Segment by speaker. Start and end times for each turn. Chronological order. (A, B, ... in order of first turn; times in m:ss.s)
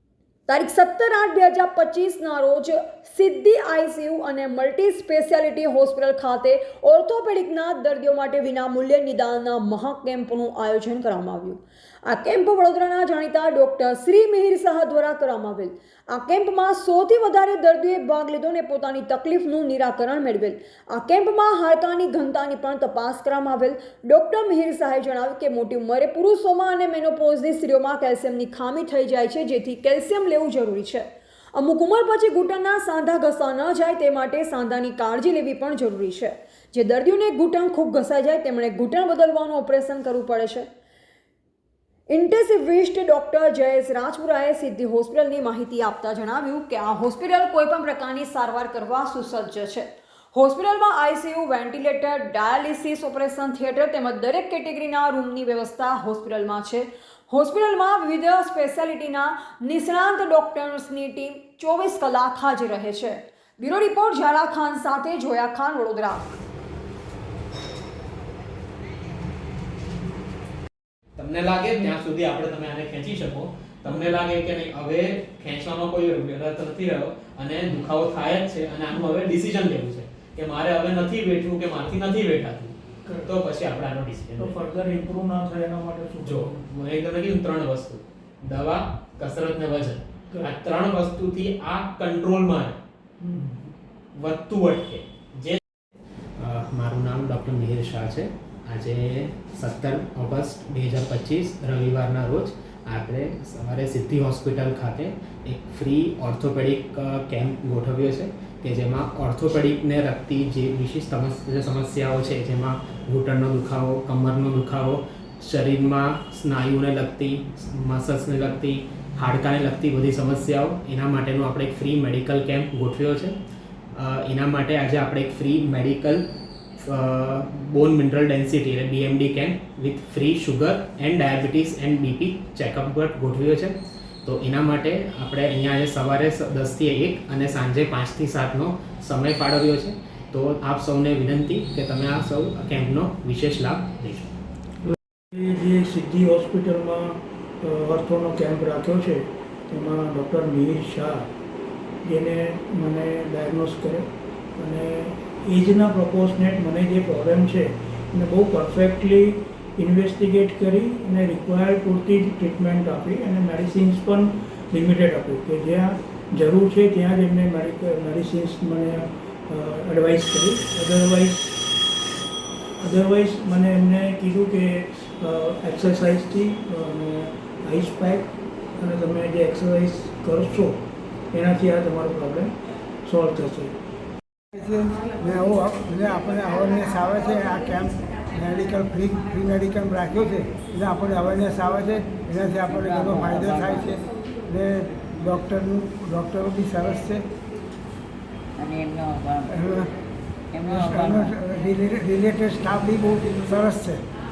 0:00.5-0:40.7 A
0:42.1-1:06.3 A
1:11.2-1:24.6 B
1:23.0-1:23.3 C
1:24.4-1:26.6 C
1:26.2-1:32.8 B
1:33.2-1:33.7 C
1:34.2-1:35.6 B
1:36.4-2:03.4 B
2:04.0-2:06.2 B
2:06.9-2:24.2 B
2:24.9-2:31.3 C
2:32.0-2:51.6 C
2:52.8-3:00.8 C
3:01.3-3:02.5 C
3:03.0-3:03.7 C
3:04.5-3:17.2 D
3:12.6-3:13.9 E
3:18.6-3:19.6 E
3:19.5-3:19.9 D
3:20.5-3:21.3 E
3:20.7-3:24.0 D